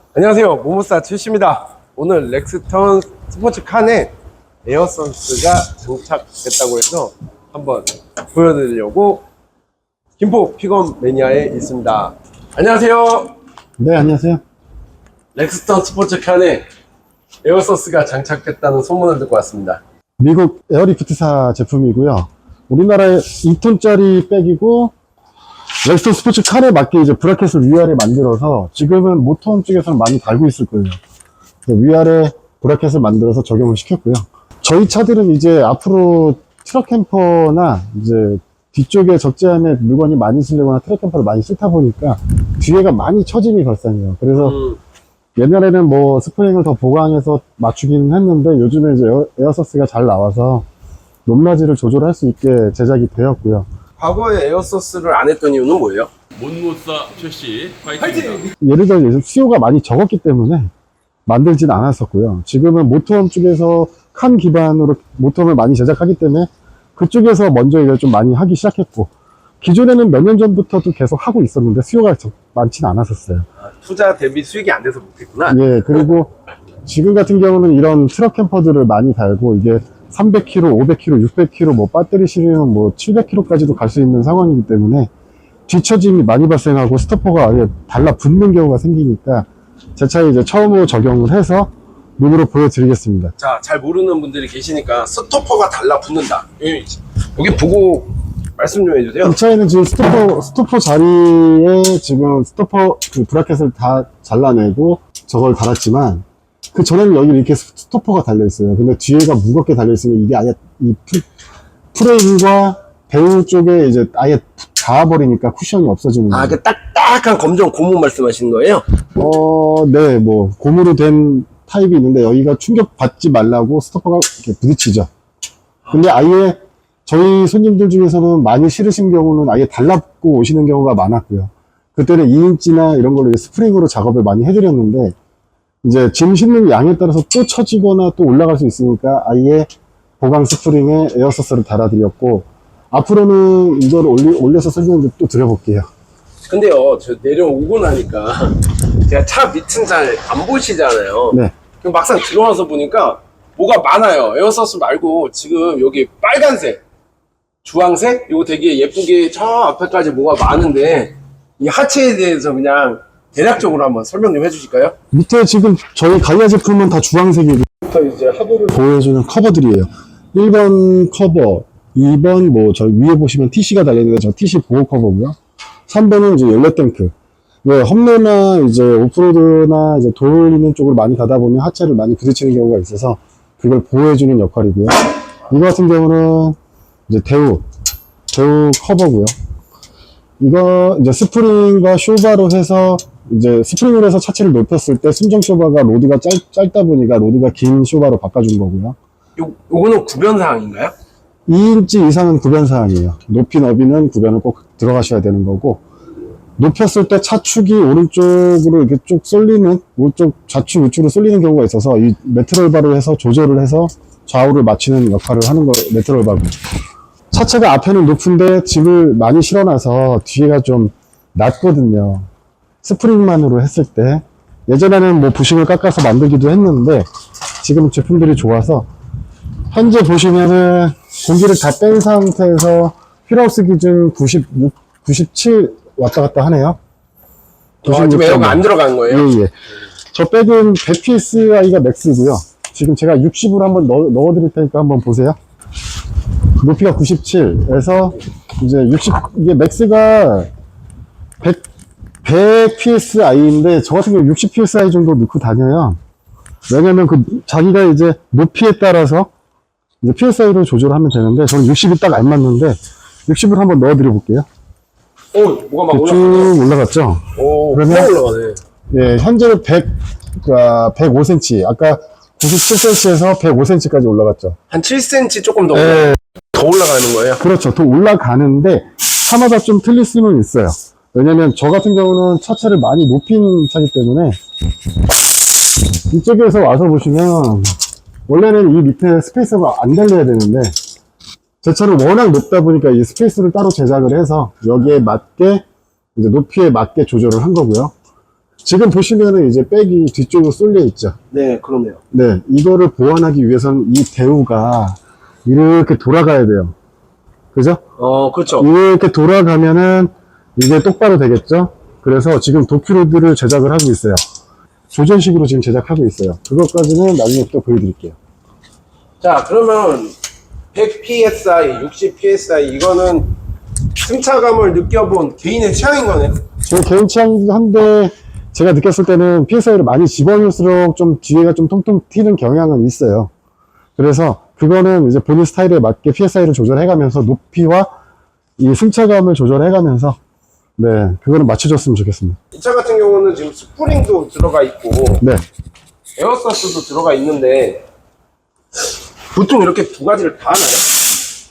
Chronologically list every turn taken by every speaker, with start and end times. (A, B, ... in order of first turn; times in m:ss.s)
0:00.1-0:04.1 A
0:04.6-0:09.2 A
0:10.2-0:13.4 A
0:13.8-0:14.4 B
0:15.3-0:16.6 A
0:17.4-0:19.8 A
0:20.2-0:24.9 B
0:25.8-0:31.0 B
0:31.7-0:44.6 B
0:44.3-0:44.8 A
0:45.4-0:50.7 B
0:51.2-0:53.7 B
0:54.0-0:56.1 A
0:56.4-0:58.5 C
0:58.6-1:00.7 B
1:01.3-1:13.4 B
1:13.6-1:15.6 A
1:15.5-1:16.3 B
1:16.8-1:25.1 B
1:25.7-1:33.3 B
1:33.4-1:39.4 A
1:39.2-1:51.2 B
1:51.9-1:56.6 B
1:56.3-1:58.8 A
1:59.2-2:05.1 B
2:05.9-2:15.2 B
2:15.8-2:25.9 B
2:26.5-2:36.8 A
2:37.6-2:44.9 A
2:45.1-2:47.7 B
2:47.8-2:48.7 A
2:48.7-2:55.4 B
2:55.9-3:06.6 B
3:07.1-3:07.6 B
3:08.3-3:09.3 B
3:10.4-3:19.0 B
3:19.4-3:20.9 A
3:21.5-3:25.8 B
3:26.6-3:36.6 B
3:37.3-3:42.3 B
3:42.8-3:47.1 B
3:47.6-3:48.9 B
3:49.7-3:56.8 B
3:57.8-3:59.5 B
3:57.8-3:59.3 A
4:00.1-4:05.4 B
4:06.6-4:10.5 B
4:12.2-4:16.0 B
4:16.7-4:19.3 B
4:20.0-4:24.5 B
4:25.3-4:26.6 A
4:25.9-4:28.1 B
4:27.4-4:28.6 A
4:28.9-4:34.6 B
4:34.7-4:37.4 A
4:35.7-4:36.2 B
4:37.4-4:44.4 B
4:46.1-4:47.7 B
4:48.3-4:50.8 B
4:51.6-4:55.6 B
4:56.2-4:57.9 B
4:58.6-5:01.2 B
5:01.3-5:02.0 A
5:02.1-5:06.8 B
5:07.5-5:07.8 B
5:08.0-5:08.7 A
5:08.6-5:14.2 B
5:14.9-5:18.2 B
5:19.2-5:20.2 A
5:20.7-5:23.4 A
5:24.0-5:26.4 A
5:26.7-5:33.3 B
5:34.0-5:37.9 B
5:38.6-5:40.2 B
5:40.8-5:42.4 B
5:42.5-5:45.2 A
5:46.2-5:47.8 A
5:49.3-5:50.9 A